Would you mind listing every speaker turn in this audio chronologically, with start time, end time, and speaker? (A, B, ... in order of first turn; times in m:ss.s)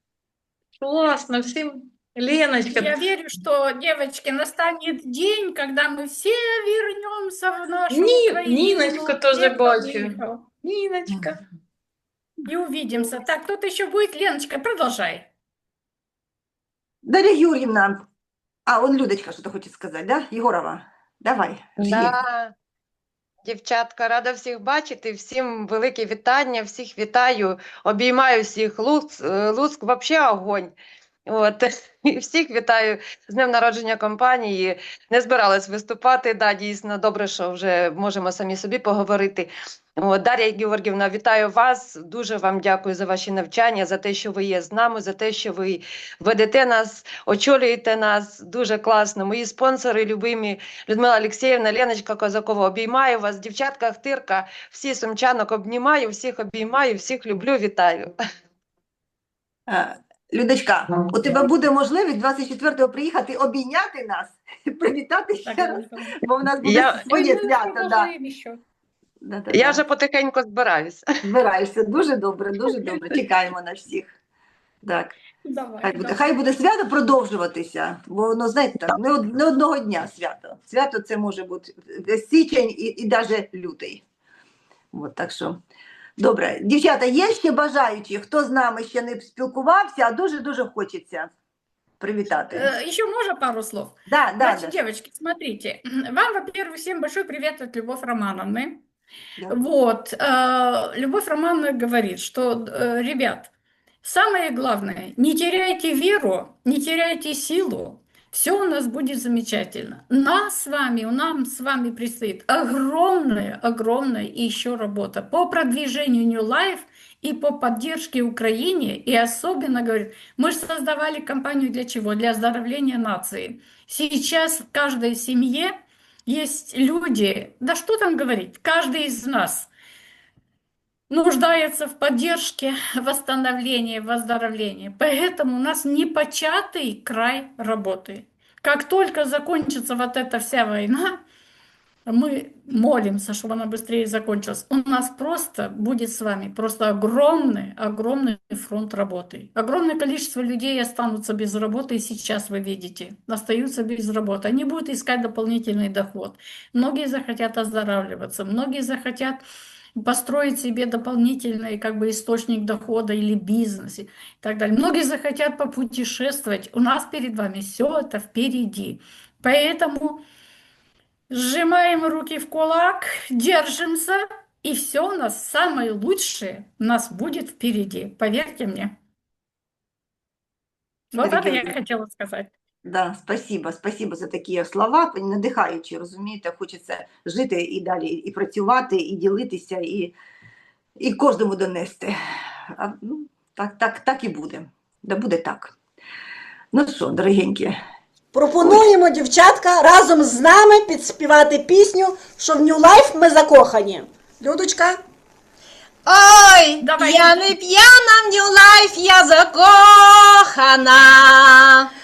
0:00.8-0:03.0 A
0:02.7-0:10.4 B
0:07.9-0:11.4 A
0:12.4-0:15.3 B
0:17.0-0:18.0 C
0:18.7-0:22.2 C
0:21.8-0:22.5 D
0:23.4-0:30.7 D
0:31.3-0:58.1 D
0:59.7-1:08.1 C
1:05.4-1:08.6 B
1:06.6-1:07.0 D
1:09.2-1:09.8 C
1:09.5-1:11.1 D
1:11.2-1:14.2 C
1:14.8-1:15.2 C
1:15.4-1:16.4 B
1:15.8-1:24.0 C
1:24.9-1:25.6 C
1:26.2-1:31.3 C
1:32.0-1:32.7 C
1:32.3-1:38.8 B
1:34.1-1:34.8 C
1:39.5-1:43.5 B
1:44.0-2:05.7 B
2:06.2-2:09.7 B
2:11.1-2:21.2 B
2:22.1-2:39.4 B
2:40.0-2:50.2 B
2:51.3-2:58.9 B
3:01.1-3:02.5 B
3:01.2-3:01.7 C
3:02.8-3:10.2 C
3:11.0-3:12.1 C
3:12.7-3:15.7 C
3:16.7-3:17.8 C
3:18.3-3:25.0 E
3:26.3-3:31.8 F
3:26.8-3:27.3 B